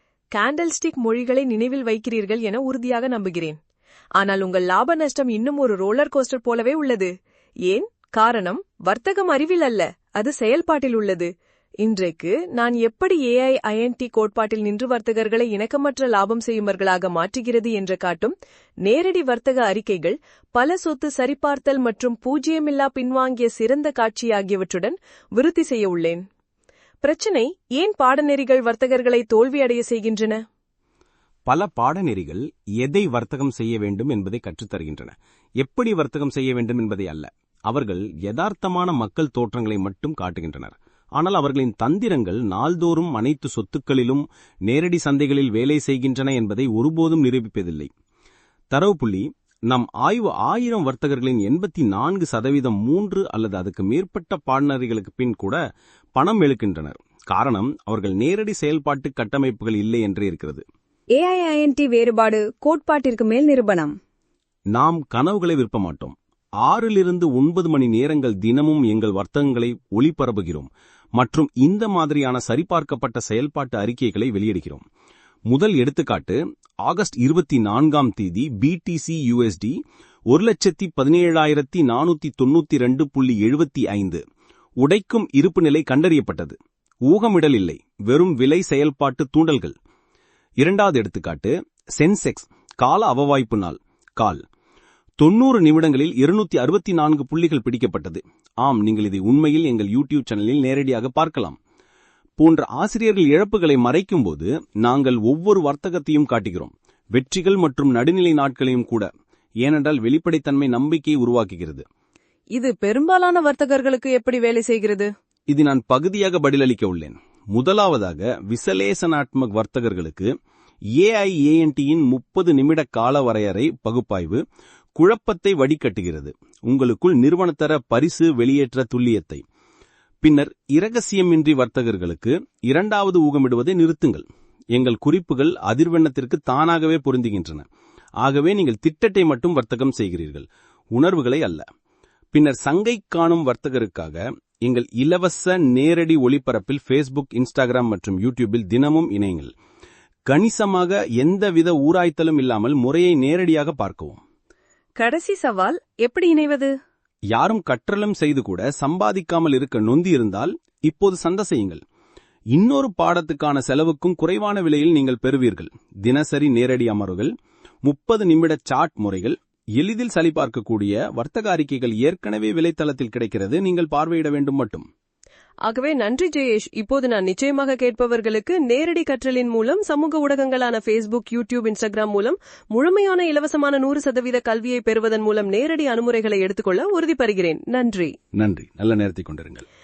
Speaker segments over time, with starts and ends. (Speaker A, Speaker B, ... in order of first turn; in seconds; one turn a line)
Speaker A: 0.3-3.5
Speaker A: 4.2-7.1
Speaker A: 7.7-11.3
Speaker A: 11.8-18.3
Speaker A: 18.8-26.2
Speaker A: 27.0-30.4
Speaker B: 31.5-47.9
Speaker B: 48.7-55.6
Speaker B: 56.2-60.6
Speaker C: 61.1-63.9
Speaker B: 64.7-74.8
Speaker B: 75.5-79.7
Speaker B: 80.3-84.2
Speaker B: 84.8-89.7
Speaker B: 90.6-94.4
Speaker B: 95.2-101.6
Speaker B: 102.4-109.1
Speaker B: 109.6-111.8
Speaker A: 112.5-115.1
Speaker B: 115.5-120.3
Speaker B: 121.0-124.4
Speaker B: 125.0-129.4
Speaker B: 130.2-137.7
Speaker B: 138.2-141.6
Speaker B: 142.3-149.5
Speaker B: 150.2-154.2
Speaker A: 155.0-156.8
Speaker B: 157.3-161.8
Speaker B: 162.5-167.3
Speaker B: 167.8-174.8
Speaker A: 175.7-188.1
Speaker B: 188.4-189.7